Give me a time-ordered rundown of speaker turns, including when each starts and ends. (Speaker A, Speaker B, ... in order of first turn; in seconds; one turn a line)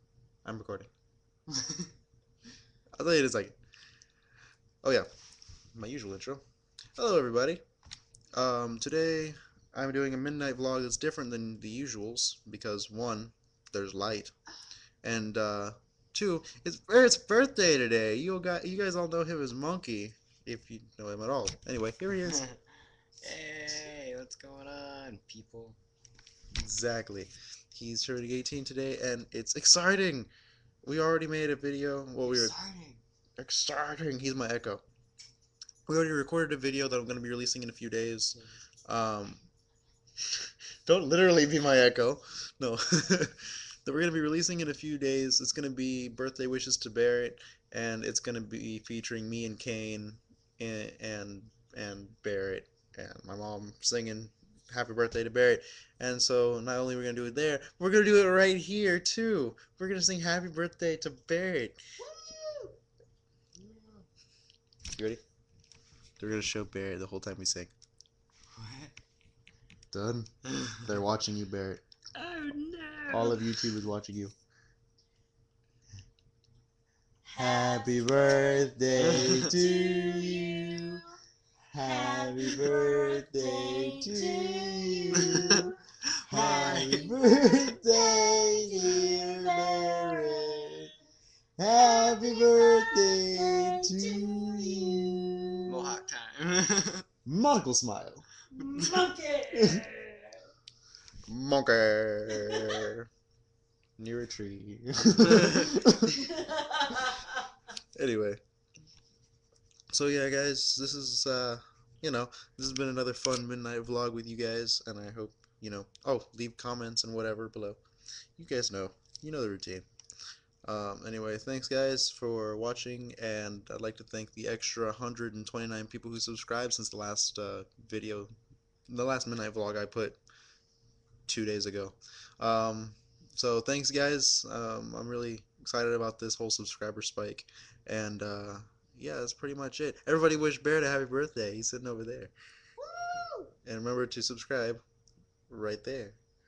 Speaker A: 0.4-0.9
Speaker A: 3.0-3.6
Speaker A: 5.7-6.4
Speaker A: 7.0-7.6
Speaker A: 8.3-14.3
Speaker A: 15.0-22.4
Speaker B: 22.2-22.6
Speaker B: 23.2-25.8
Speaker A: 26.5-30.3
Speaker A: 30.8-32.5
Speaker B: 32.2-33.0
Speaker A: 33.4-34.8
Speaker A: 35.9-39.4
Speaker A: 40.3-61.8
Speaker C: 62.1-62.7
Speaker B: 63.6-64.0
Speaker A: 64.9-65.2
Speaker A: 66.2-67.7
Speaker B: 68.5-68.9
Speaker A: 69.9-71.8
Speaker B: 72.3-73.2
Speaker A: 73.1-74.3
Speaker C: 77.2-81.0
Speaker A: 77.3-81.0
Speaker B: 79.1-79.5
Speaker A: 81.7-85.7
Speaker C: 81.8-85.8
Speaker B: 85.2-85.6
Speaker B: 86.2-87.1
Speaker A: 86.3-90.9
Speaker C: 86.3-90.8
Speaker A: 91.6-95.8
Speaker C: 91.6-95.8
Speaker B: 95.7-97.0
Speaker A: 97.2-98.2
Speaker C: 98.5-100.3
Speaker A: 99.5-99.8
Speaker A: 101.2-103.1
Speaker C: 102.3-102.8
Speaker A: 104.0-106.2
Speaker C: 106.2-107.3
Speaker A: 108.0-108.4
Speaker A: 109.9-117.8
Speaker A: 118.4-119.9
Speaker A: 120.6-128.3
Speaker A: 128.9-130.2
Speaker A: 131.3-142.3
Speaker C: 142.8-143.5
Speaker A: 143.6-144.8
Speaker A: 145.5-146.2